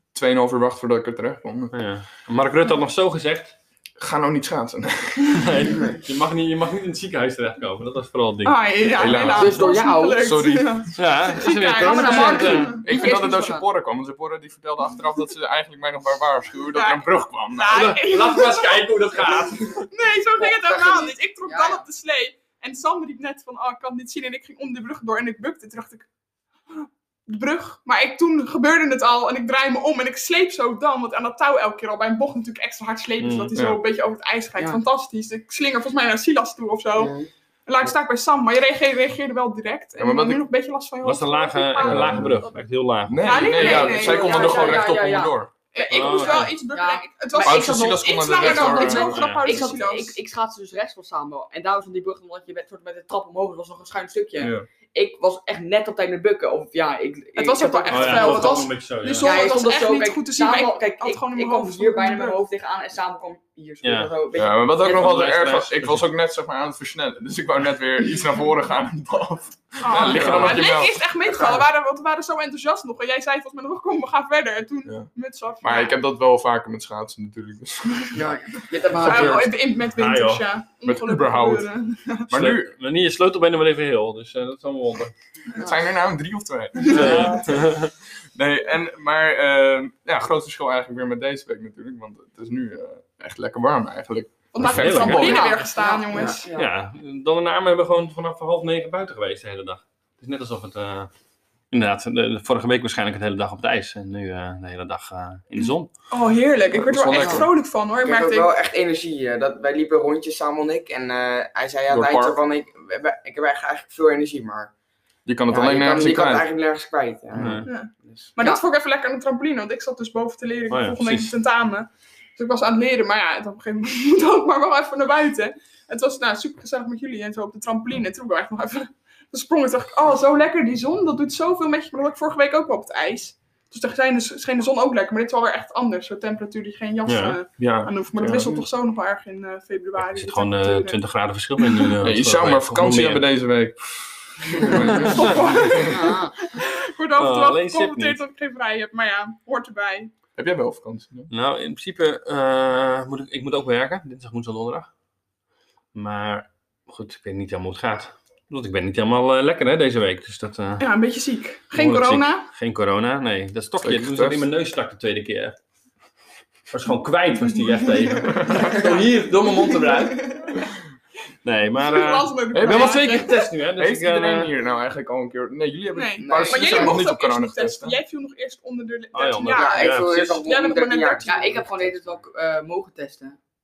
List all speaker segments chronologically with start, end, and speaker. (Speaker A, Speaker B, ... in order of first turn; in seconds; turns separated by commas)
Speaker A: 0.1-1.8, Speaker B: 1.7-3.6, Speaker A: 4.0-5.5, Speaker B: 5.3-9.2, Speaker C: 8.4-13.3, Speaker A: 8.9-10.8, Speaker D: 9.3-10.4, Speaker B: 11.0-12.8, Speaker D: 11.7-13.7, Speaker A: 12.8-17.9, Speaker C: 16.7-26.1, Speaker B: 17.7-19.9, Speaker D: 20.4-21.9, Speaker C: 26.7-37.1, Speaker B: 33.2-33.5, Speaker A: 33.5-33.8, Speaker E: 37.0-37.3, Speaker C: 37.7-42.5, Speaker A: 40.0-40.4, Speaker B: 41.0-43.7, Speaker A: 41.8-42.4, Speaker A: 43.1-45.5, Speaker C: 43.2-44.9, Speaker D: 43.4-58.6, Speaker C: 45.7-50.2, Speaker B: 45.9-46.5, Speaker A: 47.4-49.3, Speaker B: 49.0-49.6, Speaker A: 54.4-54.7, Speaker C: 57.4-62.4, Speaker B: 57.9-59.5, Speaker D: 59.2-65.3, Speaker B: 63.8-64.1, Speaker A: 64.3-71.0, Speaker B: 64.8-66.0, Speaker C: 69.8-76.0, Speaker B: 69.9-70.7, Speaker A: 75.6-78.4, Speaker D: 78.1-79.5, Speaker C: 78.9-82.3, Speaker B: 79.1-80.5, Speaker A: 80.8-81.7, Speaker A: 82.3-82.7, Speaker B: 82.3-85.1, Speaker A: 85.6-95.4, Speaker C: 86.8-87.4, Speaker B: 86.9-87.9, Speaker C: 94.5-96.5, Speaker B: 94.6-95.5, Speaker D: 95.1-96.7, Speaker B: 96.5-101.1, Speaker B: 101.7-105.9, Speaker C: 105.6-108.5, Speaker A: 106.7-107.5, Speaker D: 107.1-107.4, Speaker E: 108.0-114.7, Speaker A: 111.9-112.4, Speaker A: 115.3-116.5, Speaker E: 115.5-118.3, Speaker B: 117.4-117.7, Speaker C: 117.7-141.0, Speaker B: 120.7-121.3, Speaker B: 137.1-137.4, Speaker A: 137.6-138.6, Speaker B: 140.0-143.3, Speaker A: 142.0-146.0, Speaker C: 144.7-150.1, Speaker B: 144.7-145.4, Speaker D: 145.8-146.4, Speaker B: 147.2-148.2, Speaker A: 150.4-151.3, Speaker B: 151.3-154.9, Speaker B: 155.9-160.9, Speaker C: 160.8-162.5, Speaker B: 161.7-165.6, Speaker A: 163.8-164.5, Speaker B: 166.7-170.5, Speaker C: 168.0-170.7, Speaker A: 168.3-168.8, Speaker B: 171.4-174.5, Speaker C: 171.8-173.5, Speaker A: 172.5-173.2, Speaker A: 173.8-178.0, Speaker C: 175.9-181.5, Speaker D: 176.3-176.9, Speaker E: 176.3-177.0, Speaker B: 179.1-180.4, Speaker E: 179.5-182.2, Speaker D: 181.2-183.4